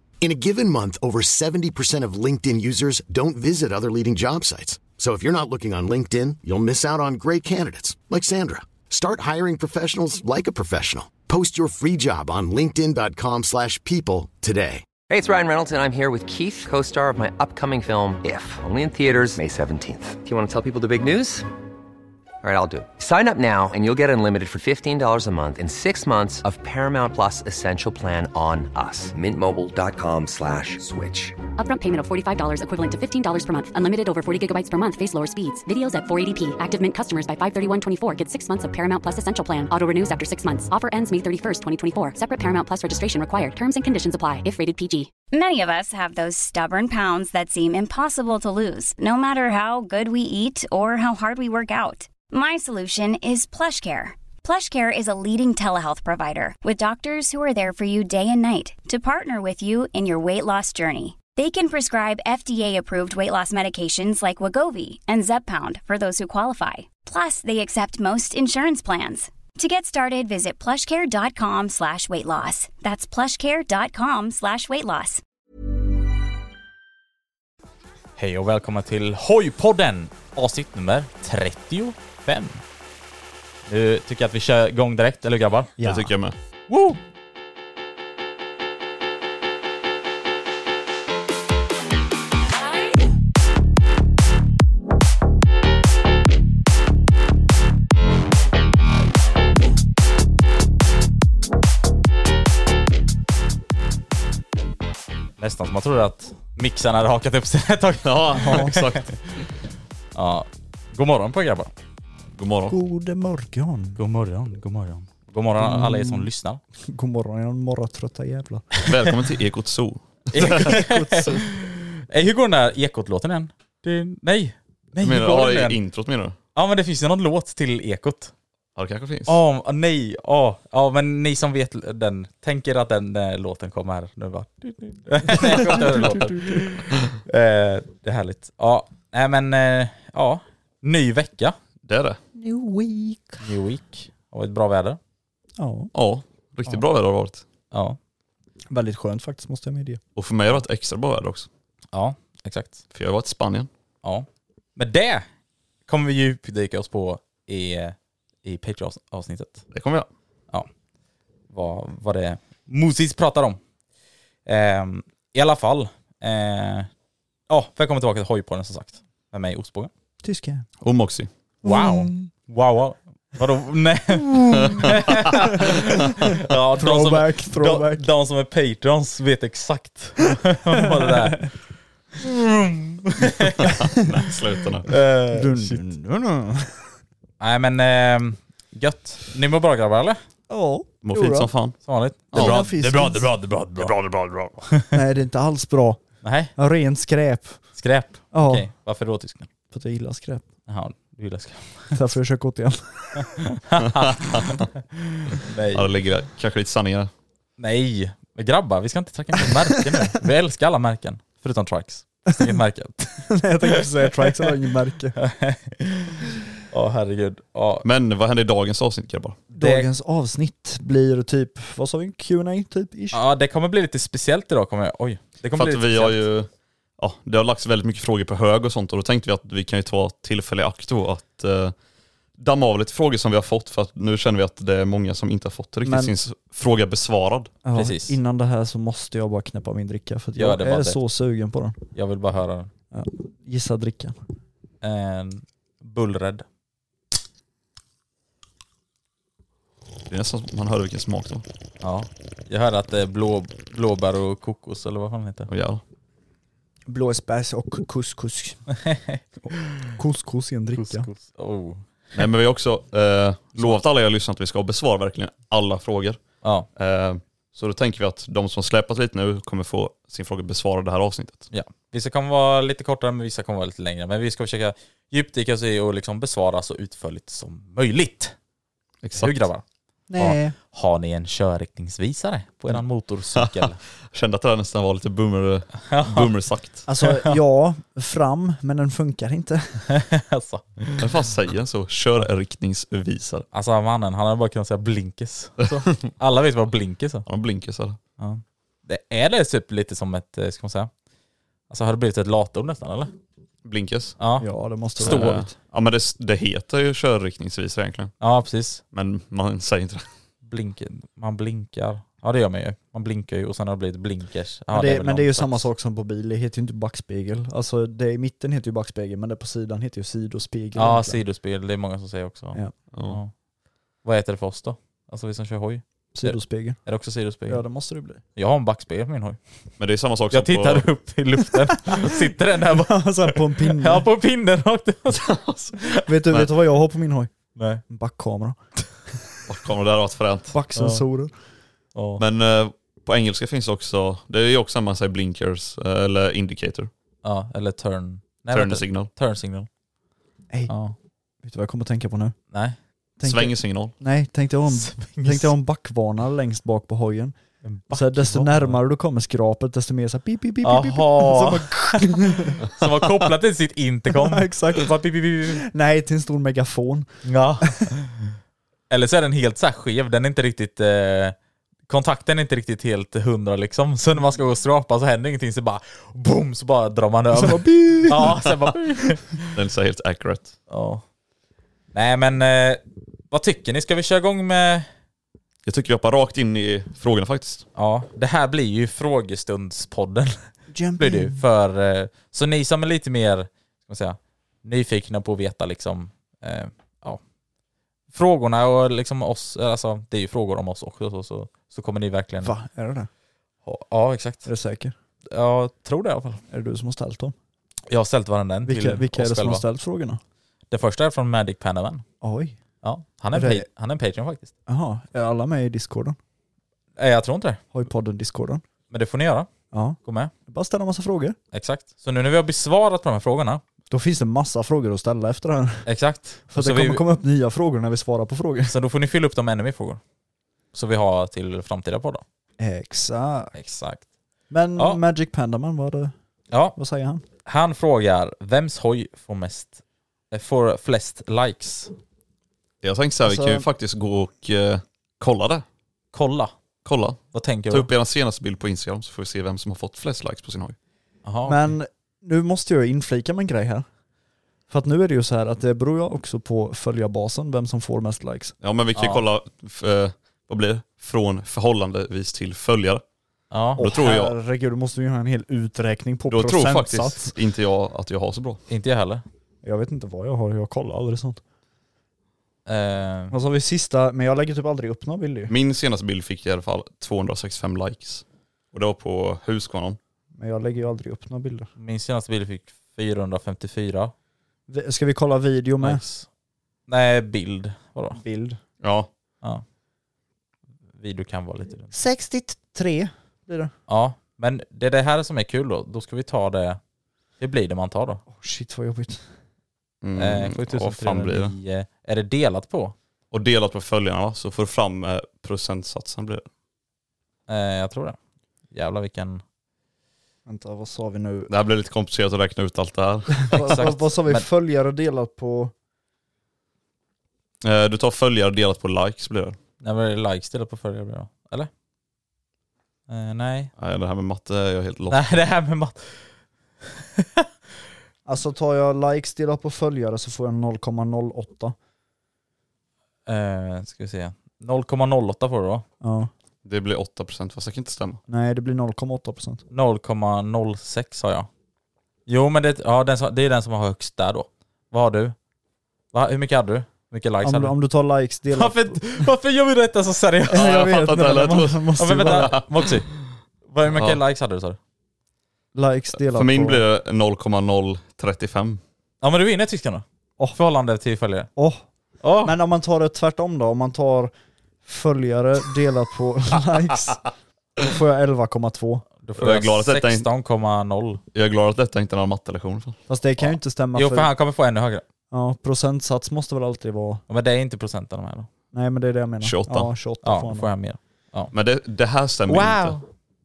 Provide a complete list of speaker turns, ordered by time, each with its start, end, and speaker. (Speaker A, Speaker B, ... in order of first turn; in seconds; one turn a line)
Speaker A: 0.2-14.8
Speaker B: 15.1-21.4
Speaker B: 22.4-31.4
Speaker C: 31.6-45.1
Speaker D: 45.3-75.2
Speaker E: 78.2-82.6
Speaker E: 83.7-85.7
Speaker F: 85.8-86.1
Speaker G: 85.8-86.3
Speaker E: 86.7-87.0
Speaker E: 105.4-109.4
Speaker G: 108.0-109.0
Speaker E: 110.1-111.7
Speaker G: 112.4-112.8
Speaker F: 112.7-114.0
Speaker E: 114.0-116.6
Speaker F: 115.6-116.3
Speaker F: 116.9-118.7
Speaker G: 118.8-120.8
Speaker E: 120.3-125.8
Speaker F: 120.4-121.5
Speaker G: 125.0-126.3
Speaker E: 126.5-128.3
Speaker G: 128.8-129.4
Speaker E: 129.3-141.6
Speaker F: 135.4-136.5
Speaker G: 141.8-142.2
Speaker F: 142.3-143.4
Speaker E: 143.4-145.0
Speaker F: 145.6-145.9
Speaker G: 145.9-147.4
Speaker E: 147.7-148.0
Speaker F: 148.7-150.0
Speaker G: 150.2-151.5
Speaker E: 151.9-152.8
Speaker G: 152.9-153.7
Speaker E: 154.0-155.2
Speaker E: 155.9-159.6
Speaker G: 159.7-160.1
Speaker E: 161.5-163.6
Speaker E: 164.4-166.9
Speaker E: 167.5-169.9
Speaker F: 170.2-170.7
Speaker G: 170.8-171.3
Speaker E: 171.6-181.5
Speaker F: 171.6-172.3
Speaker F: 174.2-178.1
Speaker F: 180.9-181.4
Speaker E: 182.2-183.7
Speaker G: 183.6-184.9
Speaker E: 184.9-185.8
Speaker F: 185.3-186.8
Speaker E: 187.4-190.2
Speaker F: 190.5-191.5
Speaker G: 191.0-191.7
Speaker E: 191.8-194.9
Speaker G: 192.3-192.7
Speaker F: 192.3-193.3
Speaker G: 193.9-194.5
Speaker F: 194.9-196.0
Speaker E: 196.2-196.5
Speaker F: 196.6-197.6
Speaker E: 197.8-199.5
Speaker F: 198.3-198.7
Speaker F: 199.7-200.4
Speaker E: 200.7-201.9
Speaker F: 201.9-203.3
Speaker E: 203.3-204.8
Speaker G: 203.8-204.7
Speaker E: 205.4-205.9
Speaker G: 205.7-207.1
Speaker E: 207.6-214.3
Speaker F: 213.3-215.2
Speaker E: 215.2-217.8
Speaker G: 217.8-219.4
Speaker F: 219.5-223.2
Speaker E: 219.5-219.9
Speaker E: 223.1-226.2
Speaker G: 225.5-231.7
Speaker G: 232.3-237.5
Speaker F: 235.8-236.1
Speaker F: 237.6-241.8
Speaker E: 237.7-238.2
Speaker E: 240.4-241.0
Speaker E: 241.9-242.7
Speaker F: 242.9-244.1
Speaker E: 244.8-246.4
Speaker G: 250.1-251.4
Speaker E: 251.8-255.5
Speaker G: 255.5-255.8
Speaker F: 256.9-258.6
Speaker E: 258.8-259.2
Speaker F: 259.9-261.1
Speaker E: 260.7-261.8
Speaker G: 262.1-266.2
Speaker E: 266.4-266.7
Speaker G: 266.8-271.5
Speaker E: 271.5-278.3
Speaker G: 279.0-279.3
Speaker E: 279.2-279.6
Speaker F: 280.1-280.5
Speaker E: 280.2-283.8
Speaker G: 283.3-286.8
Speaker E: 285.9-286.3
Speaker F: 286.9-289.8
Speaker E: 287.0-287.4
Speaker E: 289.9-291.1
Speaker G: 291.0-293.4
Speaker E: 293.5-297.3
Speaker G: 295.6-296.0
Speaker G: 297.2-298.0
Speaker E: 298.2-300.9
Speaker E: 301.7-303.1
Speaker G: 303.6-304.1
Speaker E: 304.2-304.5
Speaker F: 304.4-305.5
Speaker E: 305.0-305.4
Speaker G: 305.0-308.1
Speaker E: 308.2-308.8
Speaker G: 308.9-310.1
Speaker E: 310.4-315.7
Speaker F: 314.7-321.2
Speaker E: 320.8-323.3
Speaker G: 322.9-323.2
Speaker E: 324.0-327.6
Speaker F: 326.1-326.8
Speaker F: 327.4-328.2
Speaker E: 328.3-329.4
Speaker G: 329.8-330.9
Speaker E: 330.3-335.2
Speaker F: 331.6-334.1
Speaker G: 335.1-336.5
Speaker E: 335.8-336.1
Speaker F: 336.1-337.3
Speaker E: 337.6-337.8
Speaker F: 337.9-339.2
Speaker G: 339.5-340.5
Speaker F: 340.5-341.3
Speaker E: 340.7-341.0
Speaker E: 341.9-342.2
Speaker G: 342.2-346.9
Speaker E: 347.2-349.7
Speaker G: 348.5-349.1
Speaker E: 350.7-350.9
Speaker F: 351.4-352.4
Speaker E: 352.5-352.8
Speaker F: 353.2-357.3
Speaker G: 353.2-353.9
Speaker E: 354.7-355.5
Speaker E: 357.6-358.8
Speaker F: 357.9-362.6
Speaker E: 360.6-365.6
Speaker F: 364.1-367.1
Speaker E: 367.2-368.3
Speaker E: 368.9-371.4
Speaker E: 371.9-379.5
Speaker F: 377.3-378.4
Speaker G: 379.5-380.5
Speaker E: 380.7-381.0
Speaker E: 381.9-384.9
Speaker G: 385.6-387.6
Speaker E: 387.7-397.2
Speaker F: 390.7-391.4
Speaker E: 398.1-402.5
Speaker F: 402.4-403.1
Speaker E: 403.6-404.5
Speaker F: 404.4-404.9
Speaker E: 405.3-406.4
Speaker F: 406.5-407.3
Speaker E: 407.9-409.6
Speaker F: 408.6-410.2
Speaker E: 410.7-412.0
Speaker F: 412.2-412.6
Speaker E: 412.8-414.5
Speaker F: 413.3-413.7
Speaker F: 414.7-416.2
Speaker E: 416.9-417.6
Speaker F: 417.7-418.6
Speaker E: 418.9-419.5
Speaker F: 419.7-421.4
Speaker E: 420.0-420.3
Speaker E: 421.5-423.6
Speaker F: 423.9-425.9
Speaker E: 425.9-427.0
Speaker F: 426.5-428.7
Speaker E: 428.7-430.0
Speaker E: 430.7-432.2
Speaker F: 432.6-433.5
Speaker E: 433.5-434.0
Speaker F: 434.5-436.1
Speaker F: 436.7-437.2
Speaker E: 437.4-439.8
Speaker E: 440.3-441.9
Speaker G: 442.8-445.6
Speaker F: 443.2-443.6
Speaker E: 446.1-446.5
Speaker G: 446.8-450.8
Speaker E: 447.3-447.9
Speaker E: 451.2-451.6
Speaker F: 451.4-453.9
Speaker F: 454.7-458.5
Speaker G: 458.6-463.0
Speaker E: 458.9-459.2
Speaker E: 463.5-463.9
Speaker F: 463.8-467.3
Speaker G: 463.8-464.3
Speaker G: 466.3-468.6
Speaker E: 468.7-469.2
Speaker F: 469.6-471.4
Speaker E: 472.6-473.3
Speaker F: 473.3-475.5
Speaker G: 475.5-480.0
Speaker F: 480.4-481.7
Speaker E: 481.8-484.1
Speaker F: 484.7-486.0
Speaker E: 485.8-486.3
Speaker E: 486.9-488.2
Speaker F: 488.1-488.6
Speaker G: 488.8-489.1
Speaker E: 491.0-491.9
Speaker F: 491.9-493.7
Speaker E: 493.9-496.8
Speaker E: 497.4-498.2
Speaker F: 498.3-499.2
Speaker G: 500.0-501.5
Speaker E: 500.1-502.9
Speaker G: 503.3-506.5
Speaker E: 507.5-508.2
Speaker E: 508.7-509.4
Speaker F: 510.4-511.5
Speaker G: 511.5-513.9
Speaker F: 513.4-515.7
Speaker E: 513.5-514.4
Speaker G: 517.6-519.6
Speaker E: 519.8-521.7
Speaker E: 523.1-523.7
Speaker G: 523.8-525.4
Speaker E: 525.1-526.3
Speaker F: 528.2-531.7
Speaker E: 533.3-535.8
Speaker F: 536.0-536.3
Speaker G: 536.6-538.2
Speaker F: 538.3-539.6
Speaker E: 539.7-541.5
Speaker E: 542.3-545.3
Speaker E: 546.1-547.7
Speaker F: 547.4-549.2
Speaker E: 548.5-550.6
Speaker F: 550.5-552.5
Speaker G: 550.5-552.7
Speaker E: 552.0-553.1
Speaker E: 553.6-554.8
Speaker G: 553.9-554.2
Speaker F: 555.7-556.8
Speaker G: 556.2-558.8
Speaker E: 559.2-561.5
Speaker F: 561.5-561.8
Speaker E: 562.2-562.5
Speaker F: 562.4-564.3
Speaker F: 564.8-569.0
Speaker E: 569.2-571.2
Speaker G: 569.4-570.3
Speaker G: 571.3-573.0
Speaker F: 573.1-574.3
Speaker E: 573.4-575.0
Speaker F: 575.3-577.2
Speaker E: 577.3-578.5
Speaker F: 578.7-580.7
Speaker G: 579.4-579.9
Speaker E: 580.2-581.5
Speaker G: 581.5-583.0
Speaker E: 582.5-583.0